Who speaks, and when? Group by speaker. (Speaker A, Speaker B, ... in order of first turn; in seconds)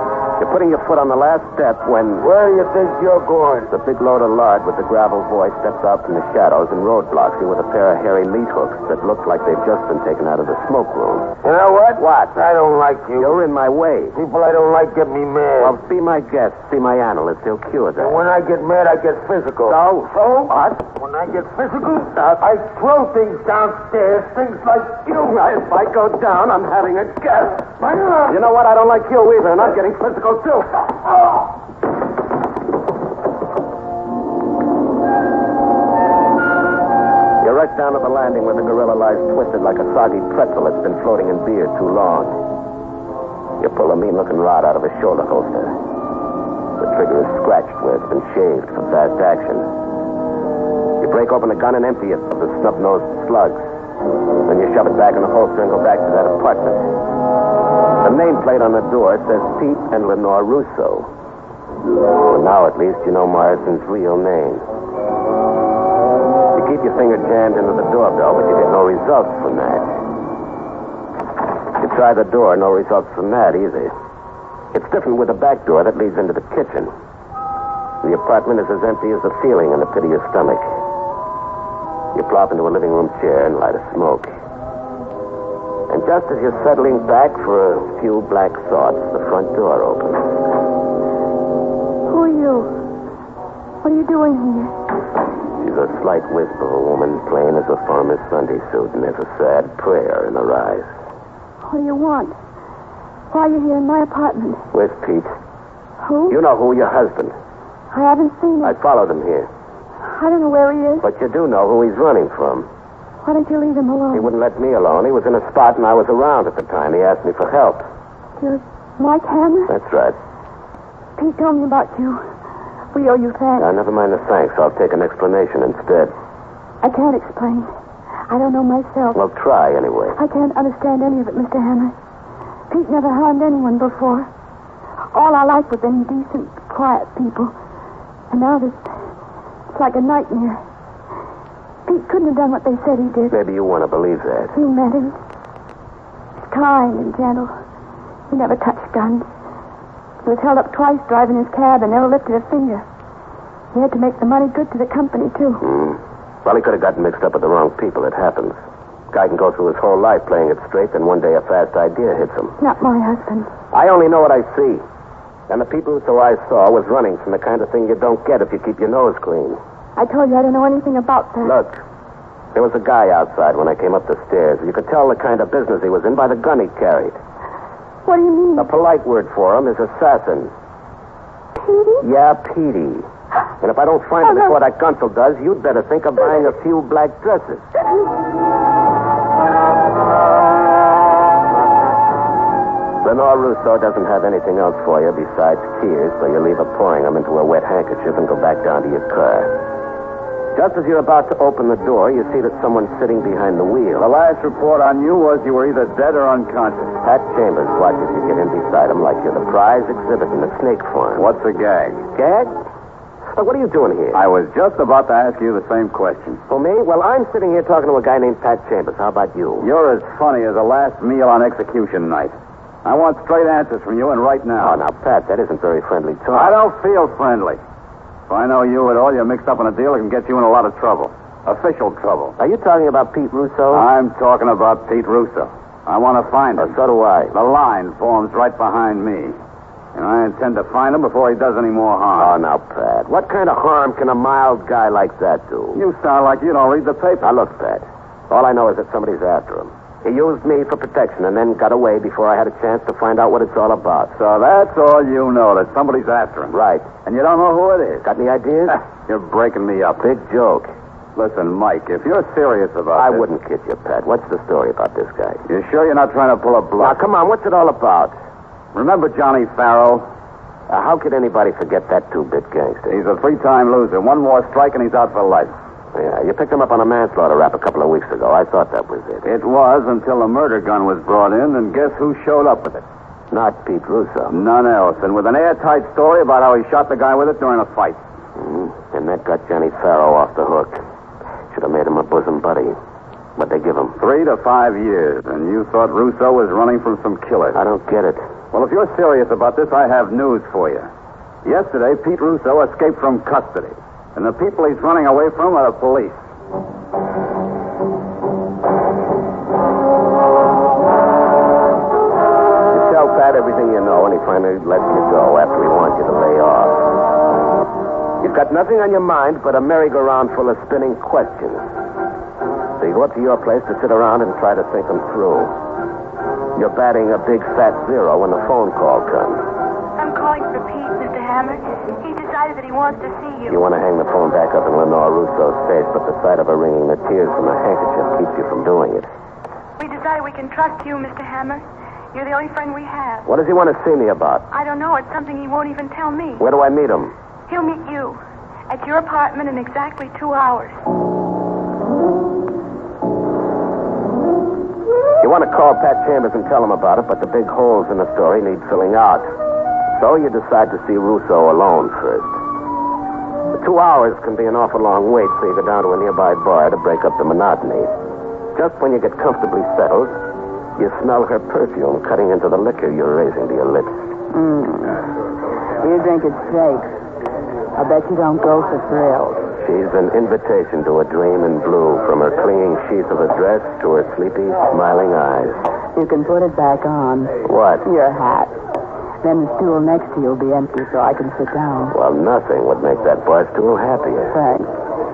Speaker A: 0.4-2.3, 3.7-11.3, 12.0-12.3, 13.2-14.2, 15.6-18.2, 19.6-20.8, 25.1-30.9, 37.4-42.3, 43.6-45.7, 46.8-49.7, 51.0-53.6, 54.5-56.9, 58.0-61.1, 62.2-64.6, 66.5-69.9, 71.8-73.9, 74.7-76.9, 78.0-80.6, 82.1-84.3, 85.9-90.3, 95.6-100.9, 104.7-105.3, 106.3-107.3, 108.6-109.5, 111.0-112.7, 114.1-117.8, 119.7-120.2, 123.6-126.1, 129.1-130.2, 143.3-144.5, 155.6-158.6, 159.1-162.5, 163.7-164.8, 165.5-169.6, 171.4-171.8, 172.5-177.2, 178.6-180.5, 182.0-183.1, 183.6-187.7, 193.0-199.5, 200.5-204.1, 207.0-211.2, 212.1-212.5, 213.3-214.2, 216.5-219.7, 224.6-226.5, 232.4-233.8, 236.6-237.3, 242.2-245.8, 247.2-254.1, 256.5-256.9, 258.0-258.8, 260.0-260.7, 262.9-265.4, 266.8-268.1, 270.7-273.0, 275.9-279.3, 283.3-284.4, 288.4-290.8, 291.5-292.8, 293.4-293.9, 297.5-298.3, 312.7-316.8, 318.2-321.6, 322.8-325.5, 326.6-329.4, 333.5-339.1, 343.2-344.5, 346.4-347.1, 355.2-359.3, 359.9-362.4, 363.5-367.9, 368.5-370.2, 370.8-374.0, 379.6-385.6, 387.4-387.8, 391.9-394.3
Speaker B: 2.2-3.7, 11.4-13.4, 14.1-15.8, 18.0-19.8, 20.9-25.1
Speaker C: 92.1-92.7, 93.8-94.7, 101.6-102.3, 103.3-104.6, 106.0-106.4, 107.9-108.8, 110.0-111.1, 113.2-114.3, 118.4-119.7, 121.2-122.2, 122.9-123.7, 126.8-127.7, 128.3-129.2, 130.1-131.9, 132.7-134.3, 135.1-137.5, 138.3-138.9, 139.7-140.6, 141.8-143.4, 144.5-145.2, 146.4-147.5, 148.3-149.2, 150.2-152.8, 153.7-155.6, 162.6-163.5, 169.9-171.6, 178.0-178.7, 181.6-182.0
Speaker D: 204.0-206.9, 211.2-212.1, 214.1-216.4, 219.6-224.8, 226.3-227.6, 228.3-232.3, 233.7-236.7, 237.3-239.3, 239.9-242.4, 245.7-247.3, 254.1-258.0, 258.7-260.0, 261.1-263.2, 265.5-267.0, 268.7-270.1, 272.9-275.5, 279.2-282.8, 284.3-288.0, 294.0-297.6, 298.5-300.9, 301.4-306.2
Speaker E: 330.0-333.6, 339.8-343.2, 344.5-346.4, 347.5-350.8
Speaker F: 374.3-375.1, 375.8-376.9, 377.8-379.4, 385.9-388.6, 389.2-391.9, 394.3-394.7